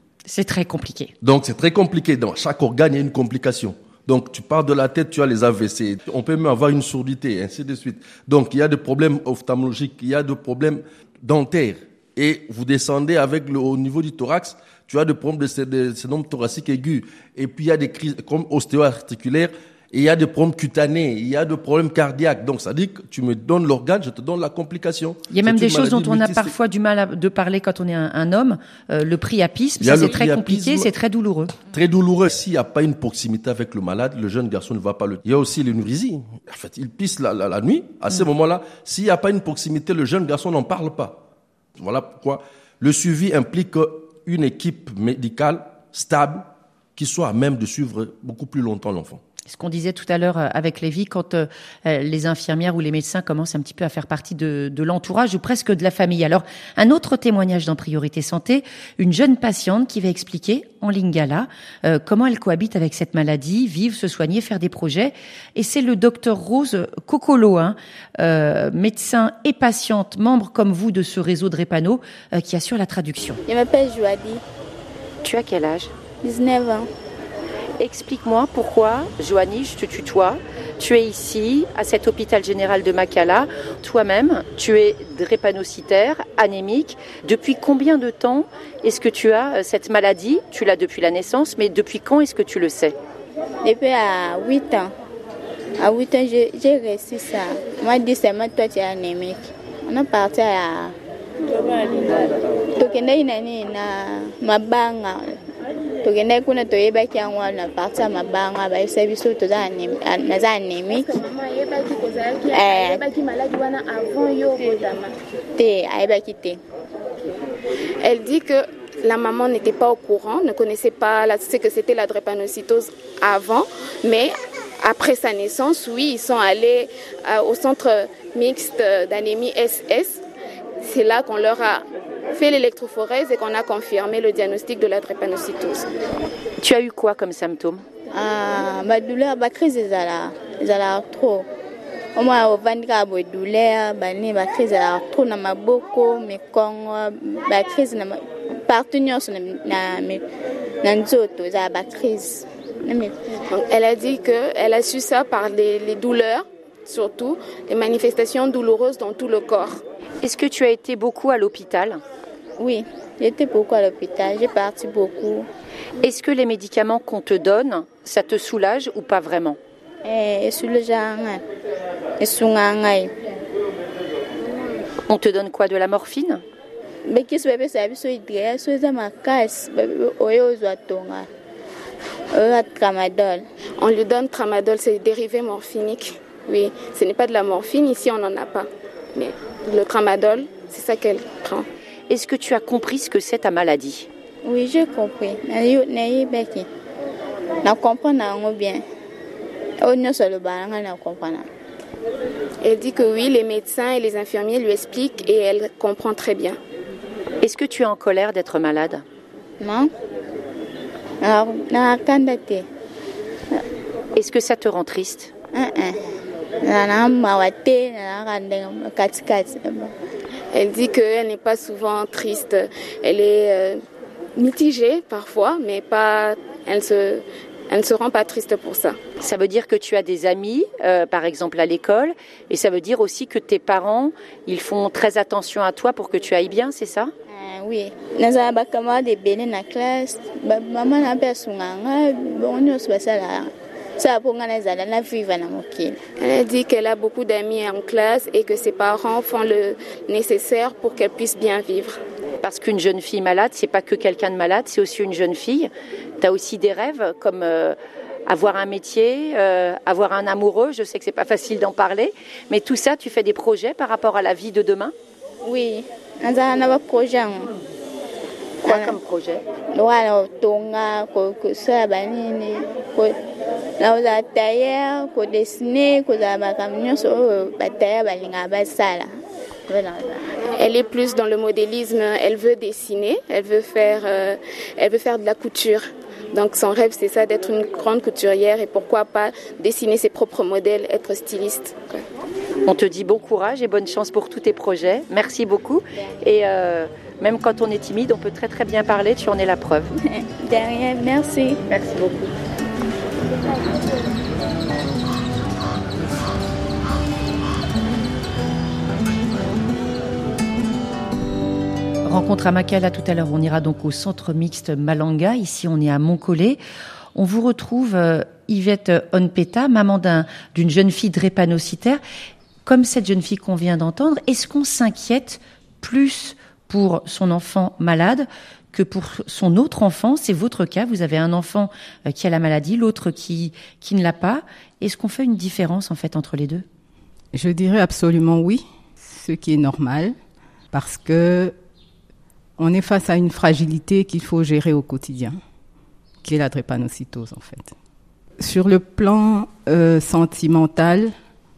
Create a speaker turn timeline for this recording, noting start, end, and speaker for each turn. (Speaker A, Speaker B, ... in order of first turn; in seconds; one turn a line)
Speaker A: 0.3-1.1
Speaker B: 1.2-26.5
Speaker A: 25.3-31.5
Speaker B: 29.8-30.9
Speaker B: 31.7-41.2
Speaker B: 41.8-49.2
Speaker A: 49.5-73.4
Speaker C: 73.5-74.4
Speaker A: 75.2-75.9
Speaker C: 76.2-76.9
Speaker A: 77.8-92.9
Speaker C: 93.6-94.9
Speaker C: 95.8-100.9
Speaker C: 102.8-105.4
Speaker C: 106.0-111.2
Speaker D: 111.3-115.1
Speaker C: 112.5-113.0
Speaker C: 115.5-116.6
Speaker D: 118.0-130.2
Speaker D: 130.8-135.8
Speaker A: 136.6-137.8
Speaker C: 138.1-141.4
Speaker C: 142.2-150.2
Speaker C: 150.8-153.2
Speaker D: 153.5-159.8
Speaker A: 160.2-162.0
Speaker C: 162.6-165.5
Speaker A: 166.0-169.6
Speaker C: 170.0-171.4
Speaker C: 172.2-173.1
Speaker A: 175.1-176.4
Speaker C: 177.1-181.2
Speaker C: 182.3-183.4
Speaker D: 183.8-191.6
Speaker A: 192.1-194.1
Speaker C: 194.4-196.7
Speaker C: 197.6-198.8
Speaker C: 199.8-201.4
Speaker D: 202.6-206.6
Speaker A: 207.4-209.0
Speaker C: 209.6-209.9
Speaker C: 211.2-212.6
Speaker A: 214.1-215.3
Speaker C: 215.5-216.0
Speaker C: 216.6-219.9
Speaker D: 220.5-223.8
Speaker D: 224.3-229.0
Speaker A: 229.2-237.1
Speaker C: 237.3-246.0
Speaker D: 246.2-252.0
Speaker A: 252.4-257.8
Speaker A: 258.3-264.9
Speaker C: 265.4-267.5
Speaker A: 268.6-269.4
Speaker C: 268.6-268.9
Speaker C: 269.7-273.1
Speaker C: 273.8-279.1
Speaker C: 279.7-280.2
Speaker D: 280.6-292.0
Speaker A: 292.6-300.0
Speaker C: 300.1-302.3
Speaker A: 312.0-316.6
Speaker A: 317.1-322.0
Speaker A: 322.6-336.6
Speaker E: 337.3-340.1
Speaker E: 340.7-341.5
Speaker E: 342.6-345.4
Speaker E: 346.2-347.7
Speaker E: 348.4-351.1